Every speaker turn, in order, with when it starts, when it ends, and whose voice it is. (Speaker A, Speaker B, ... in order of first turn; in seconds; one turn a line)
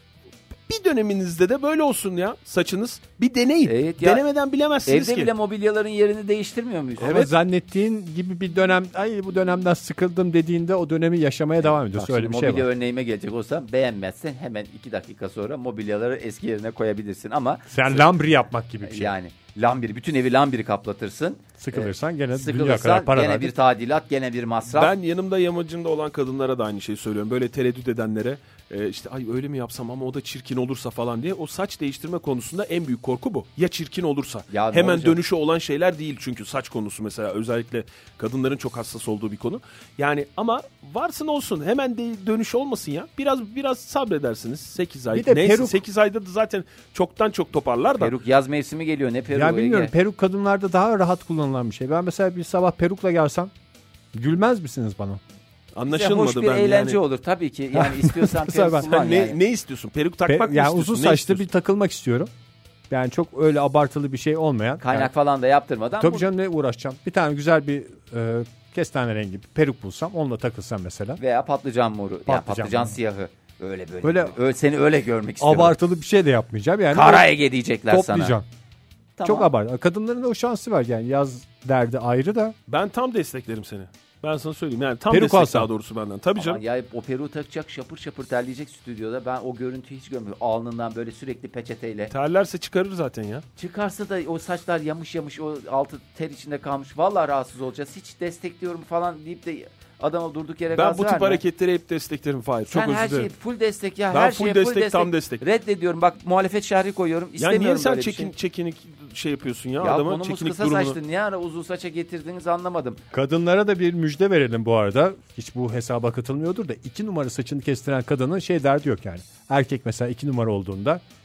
Speaker A: 0.7-5.3
Speaker B: 3.6-4.2
Speaker B: 4.8-7.3
Speaker C: 7.0-12.7
Speaker B: 11.6-18.1
Speaker C: 17.7-19.1
Speaker B: 18.8-24.9
Speaker C: 21.6-23.5
Speaker A: 24.7-48.1
Speaker B: 34.5-35.2
Speaker C: 45.1-45.8
Speaker B: 48.0-49.9
Speaker C: 49.3-53.5
Speaker C: 54.1-55.2
Speaker A: 55.7-57.0
Speaker B: 55.9-59.4
Speaker C: 57.7-58.9
Speaker A: 58.8-61.4
Speaker C: 60.2-62.3
Speaker C: 62.9-65.1
Speaker B: 64.8-66.3
Speaker C: 66.0-71.2
Speaker B: 71.2-75.7
Speaker C: 72.3-72.9
Speaker C: 74.0-74.3
Speaker C: 75.4-77.3
Speaker B: 76.9-78.3
Speaker C: 77.9-78.4
Speaker B: 79.2-79.5
Speaker C: 79.2-82.5
Speaker A: 82.7-86.6
Speaker C: 85.1-85.7
Speaker B: 86.4-92.1
Speaker A: 92.1-93.4
Speaker B: 93.6-101.4
Speaker A: 100.7-103.3
Speaker B: 102.7-108.3
Speaker A: 104.1-105.4
Speaker A: 107.4-111.0
Speaker B: 109.8-113.0
Speaker C: 113.1-121.0